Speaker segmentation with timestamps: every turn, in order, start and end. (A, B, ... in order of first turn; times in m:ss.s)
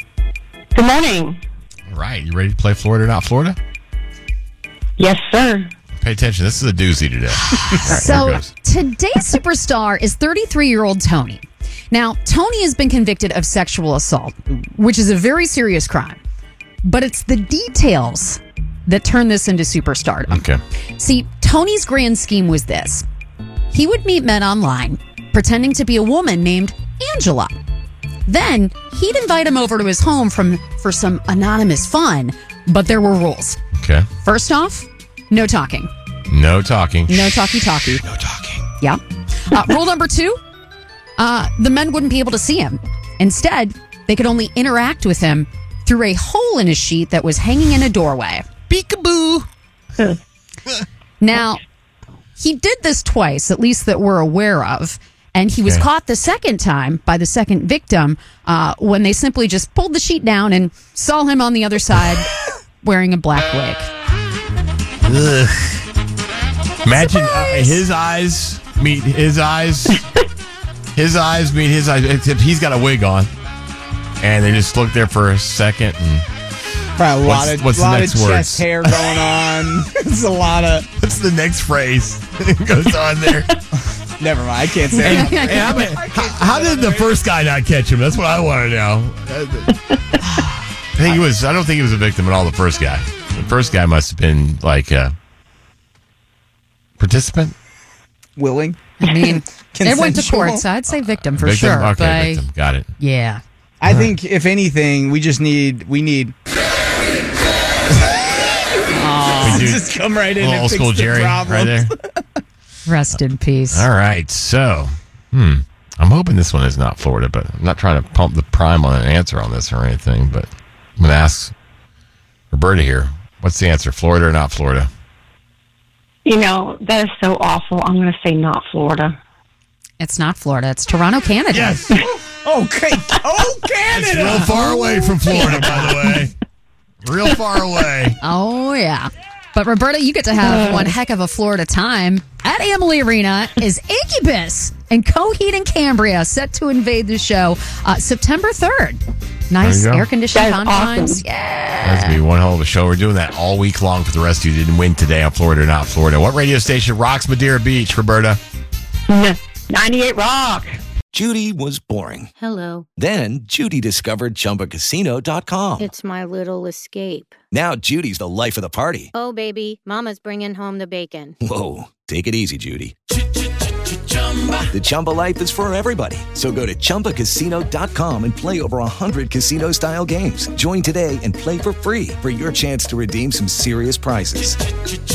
0:00.7-0:01.4 A
0:01.9-0:03.6 B
0:05.0-0:05.7 A
0:06.0-0:08.5 B
0:07.7-0:16.2 C
0:16.8-0:20.4 C
0:20.3-0:20.6 B
0:21.0-0:23.0 C
0:23.7-0:27.5 C
0:28.3-0:33.6 C
0:33.8-0:34.1 B
0:34.2-0:35.9 C
0:36.3-0:37.3 B
0:37.1-0:38.0 C
0:38.1-0:38.6 D
0:38.8-0:40.4 C
0:41.2-0:48.5 C
0:48.7-0:49.4 B
0:51.2-0:51.6 C
0:52.4-1:02.3 C
1:02.8-1:03.9 C
1:05.0-1:05.8 B
1:06.8-1:10.1 B
1:07.0-1:07.8 C
1:11.0-1:13.3 B
1:14.2-1:16.2 B
1:17.0-1:20.9 E
1:17.2-1:19.4 B
1:21.0-1:23.6 B
1:24.2-1:27.1 E
1:25.0-1:29.7 B
1:25.2-1:25.6 C
1:31.0-1:35.1 B
1:37.0-1:37.5 B
1:38.4-1:40.6 E
1:39.0-1:42.4 C
1:41.3-1:42.9 B
1:43.0-1:43.4 C
1:43.8-1:46.3 E
1:43.8-1:44.2 B
1:48.8-1:52.2 E
1:49.4-1:49.8 B
1:50.4-1:51.9 B
1:52.9-1:53.9 C
1:53.7-2:01.5 B
2:02.5-2:04.9 B
2:06.2-2:09.2 A
2:10.0-2:11.8 C
2:11.5-2:11.9 B
2:12.2-2:15.9 E
2:13.9-2:16.3 B
2:17.0-2:18.2 B
2:18.2-2:32.2 C
2:20.4-2:20.9 A
2:29.6-2:30.1 B
2:30.3-2:31.2 A
2:31.8-2:38.4 B
2:39.1-2:40.8 A
2:41.1-2:42.3 D
2:42.4-2:42.8 F
2:43.0-2:45.9 D
2:45.8-2:47.3 F
2:47.5-2:49.1 D
2:49.1-2:51.4 F
2:51.4-2:52.9 D
2:54.7-3:04.6 D